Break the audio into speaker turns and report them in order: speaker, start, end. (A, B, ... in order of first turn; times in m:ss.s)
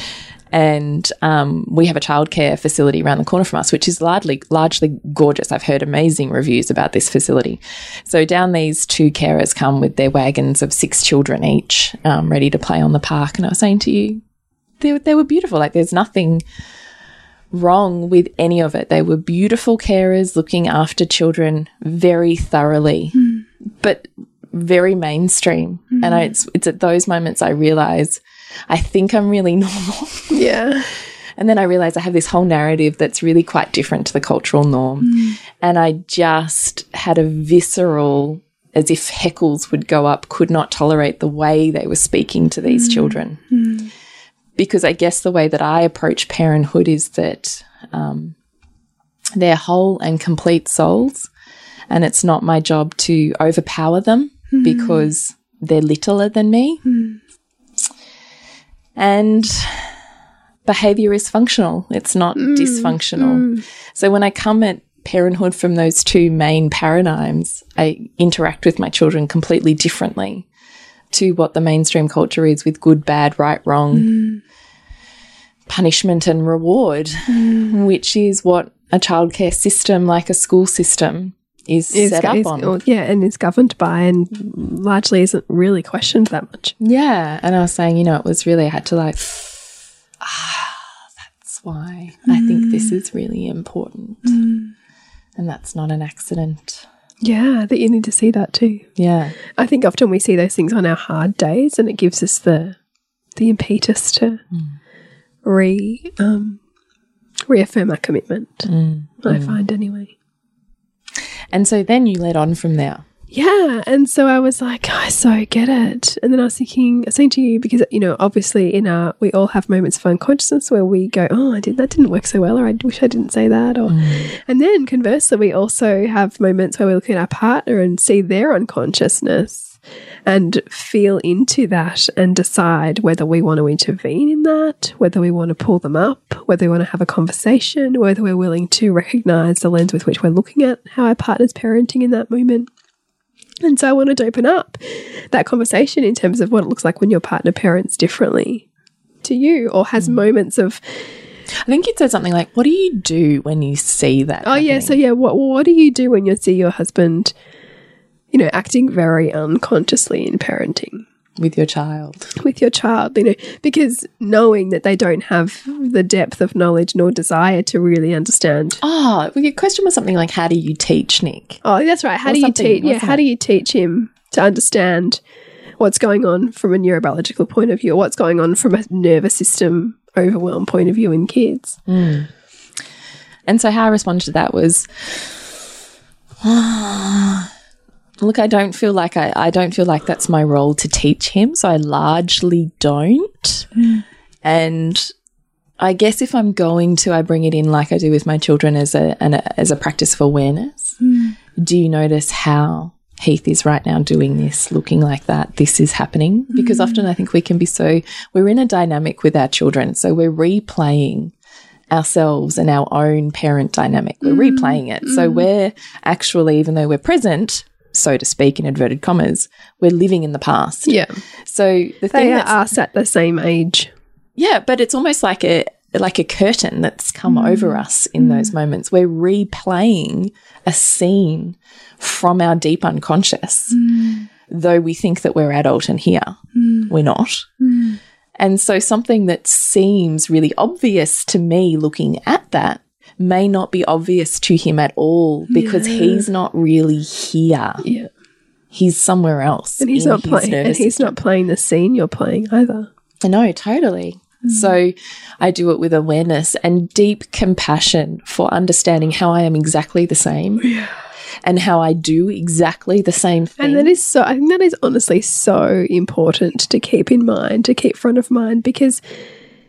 0:00.5-0:14.2 A
0:14.8-0:16.4 A
0:17.5-0:23.2 A
0:23.8-0:30.4 A
0:26.0-0:26.3 B
0:30.3-0:30.9 B
0:31.4-0:43.4 A
0:35.0-0:35.4 B
0:42.7-0:43.9 B
0:44.6-0:48.4 A
0:49.4-0:51.3 A
0:51.9-0:56.8 A
0:54.5-0:55.1 B
0:56.8-0:57.2 B
0:59.0-1:00.0 A
1:00.6-1:10.5 A
1:02.4-1:03.6 B
1:11.1-1:14.1 A
1:14.0-1:14.4 B
1:15.7-1:22.8 A
1:17.3-1:17.7 B
1:21.9-1:26.8 B
1:26.8-1:34.4 A
1:32.3-1:32.9 B
1:34.3-1:34.7 B
1:35.4-1:36.8 A
1:37.2-1:38.9 B
1:39.0-1:39.4 A
1:39.6-1:42.8 B
1:43.4-1:44.4 B
1:44.5-1:44.8 A
1:45.4-1:46.6 B
1:47.5-1:48.7 B
1:48.7-1:49.6 A
1:49.2-1:50.1 B
1:51.5-1:53.0 A
1:53.3-2:22.7 B
2:03.9-2:04.3 A
2:23.6-2:28.6 B
2:29.2-2:31.0 B
2:31.6-2:35.0 A
2:34.4-2:37.3 B
2:38.3-2:41.0 B
2:41.4-2:42.3 A
2:42.4-2:48.8 B
2:48.8-2:51.6 A
2:51.6-2:55.2 B
2:52.2-2:53.2 A
2:55.8-3:01.8 B
3:01.9-3:02.3 A
3:03.5-3:05.5 A
3:06.4-3:07.5 A
3:08.2-3:13.7 A
3:14.4-3:15.1 A
3:15.8-3:21.0 A
3:21.0-3:21.3 B
3:21.6-3:31.3 A
3:26.6-3:27.0 B
3:31.9-3:42.6 A
3:34.2-3:35.5 B
3:42.1-3:43.9 B
3:44.4-3:53.8 A
3:47.3-3:48.5 B
3:53.7-3:54.3 B
3:54.5-3:57.5 A
3:56.6-3:56.9 B
3:57.6-3:58.0 B
3:58.4-4:07.8 A
4:05.5-4:06.3 B
4:07.8-4:08.1 B
4:08.7-4:11.2 A
4:09.8-4:12.9 B
4:13.2-4:20.7 A
4:14.5-4:14.7 B
4:20.6-4:20.9 B
4:21.4-4:23.9 A
4:23.6-4:29.0 B